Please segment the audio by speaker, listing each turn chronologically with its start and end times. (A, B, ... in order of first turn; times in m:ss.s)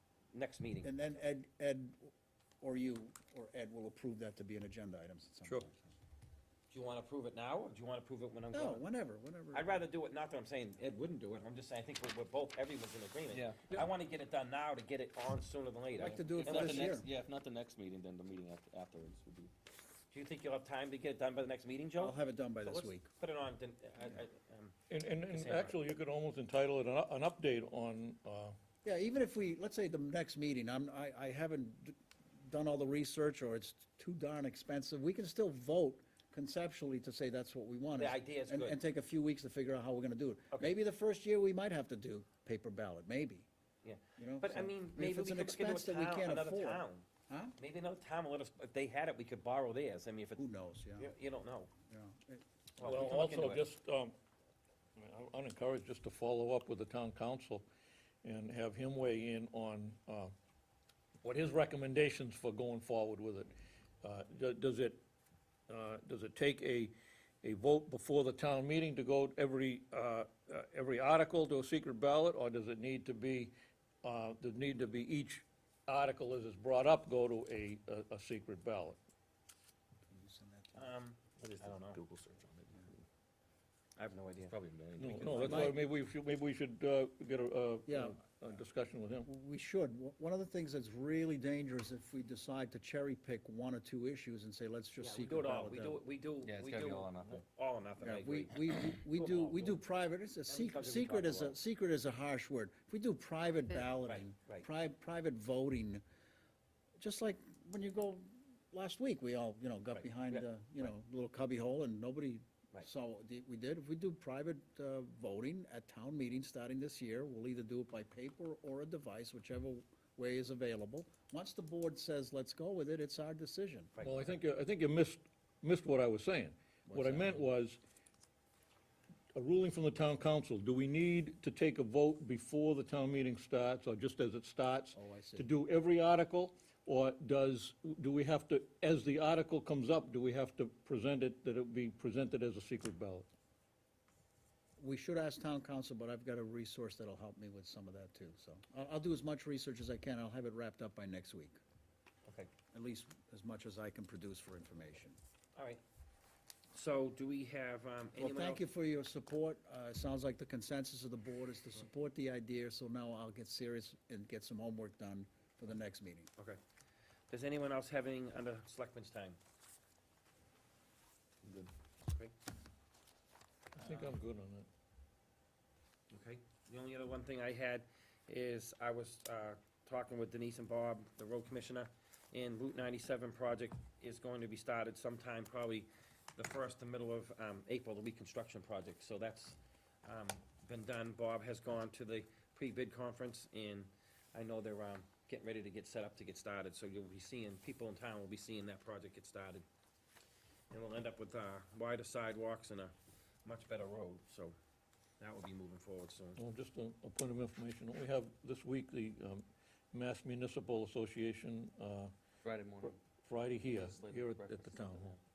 0:00.3-0:00.9 A
0:00.8-0:05.9 B
0:06.7-0:08.8 A
0:08.5-0:09.7 B
0:09.5-0:16.9 A
0:13.3-0:13.9 C
0:15.9-0:17.1 B
0:16.3-0:19.5 C
0:20.1-0:24.7 A
0:22.0-0:23.1 B
0:24.9-0:28.6 D
0:25.3-0:25.8 A
0:28.8-0:43.5 B
0:37.9-0:38.8 A
0:43.8-0:47.0 A
0:44.2-0:47.6 B
0:47.6-0:50.4 A
0:50.4-0:51.1 B
0:51.0-0:51.7 A
0:51.9-0:52.4 B
0:52.8-0:53.7 A
0:52.8-0:54.2 D
0:55.0-0:57.7 D
0:58.2-1:00.3 D
1:01.2-1:05.0 D
1:05.7-1:19.0 D
1:20.1-1:20.9 B
1:20.8-1:22.0 A
1:21.4-1:23.1 C
1:24.0-1:24.5 A
1:24.5-1:25.7 C
1:25.0-1:29.3 D
1:25.3-1:25.7 A
1:25.4-1:25.8 B
1:27.9-1:28.2 B
1:29.2-1:36.0 B
1:35.0-1:39.8 A
1:36.4-1:37.4 C
1:38.0-1:46.0 B
1:40.5-1:41.6 A
1:44.0-1:44.7 A
1:47.0-2:03.9 B
1:49.9-1:50.9 A
2:04.0-2:04.4 A
2:04.0-2:07.8 D
2:06.9-2:07.5 B
2:09.4-2:23.3 D
2:14.9-2:15.5 B
2:24.8-2:31.6 B
2:32.3-2:32.5 A
2:32.7-2:35.2 B
2:35.6-2:35.8 A
2:36.7-2:38.6 A
2:38.2-2:46.3 B
2:47.3-2:49.4 A
2:51.5-2:52.3 A
2:53.8-2:54.7 D
2:53.8-2:54.2 A
2:56.1-3:19.6 A
3:20.7-3:22.9 A
3:23.4-3:24.6 A
3:25.2-3:26.4 A
3:26.4-3:32.1 D
3:32.4-3:33.0 C
3:32.8-3:35.1 D
3:33.6-3:35.2 C